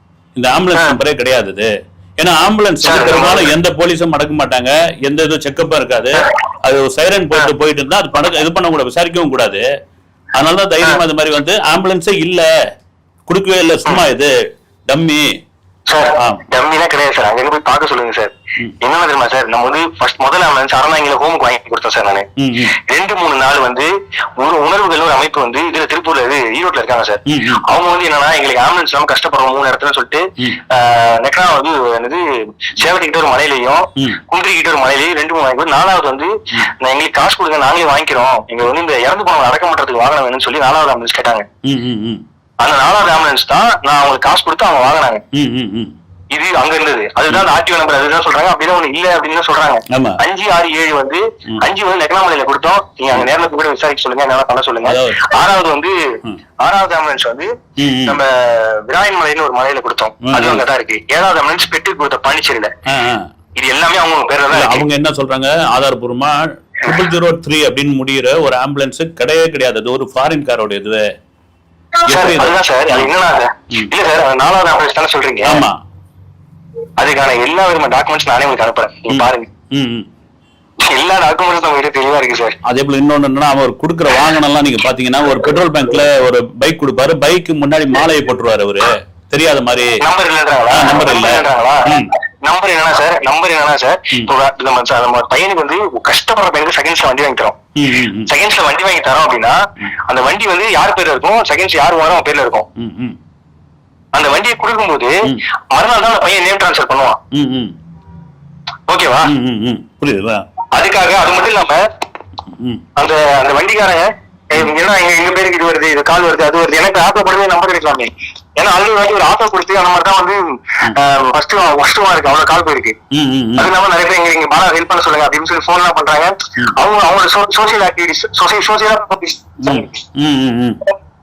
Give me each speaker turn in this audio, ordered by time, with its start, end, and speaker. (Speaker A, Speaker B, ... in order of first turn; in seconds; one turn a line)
Speaker A: 0.4-9.6
Speaker B: 2.8-3.5
Speaker A: 10.4-12.5
Speaker A: 13.3-14.3
Speaker A: 14.9-15.3
Speaker B: 15.9-41.5
Speaker A: 16.1-16.5
Speaker A: 22.4-22.7
Speaker A: 27.3-27.6
Speaker A: 41.6-42.2
Speaker B: 42.6-45.2
Speaker A: 45.3-45.9
Speaker B: 46.3-55.9
Speaker A: 49.9-50.2
Speaker A: 54.8-55.2
Speaker B: 56.6-57.5
Speaker A: 57.8-58.2
Speaker B: 58.0-62.7
Speaker A: 60.2-60.6
Speaker A: 62.9-63.3
Speaker B: 63.6-64.9
Speaker A: 64.5-71.0
Speaker A: 72.1-73.1
Speaker B: 72.1-75.6
Speaker A: 75.4-75.8
Speaker B: 77.0-79.5
Speaker A: 79.1-80.1
Speaker B: 80.9-82.6
Speaker A: 82.6-90.0
Speaker B: 90.0-97.6
Speaker A: 90.7-92.1
Speaker A: 97.8-98.3
Speaker B: 98.2-102.7
Speaker A: 102.8-103.2
Speaker B: 104.1-105.1
Speaker B: 105.7-107.2
Speaker A: 107.3-107.7
Speaker B: 108.9-109.3
Speaker A: 109.2-110.4
Speaker B: 110.7-111.8
Speaker A: 112.5-112.8
Speaker B: 113.0-123.0
Speaker A: 123.1-123.7
Speaker B: 123.6-130.0
Speaker A: 129.6-130.8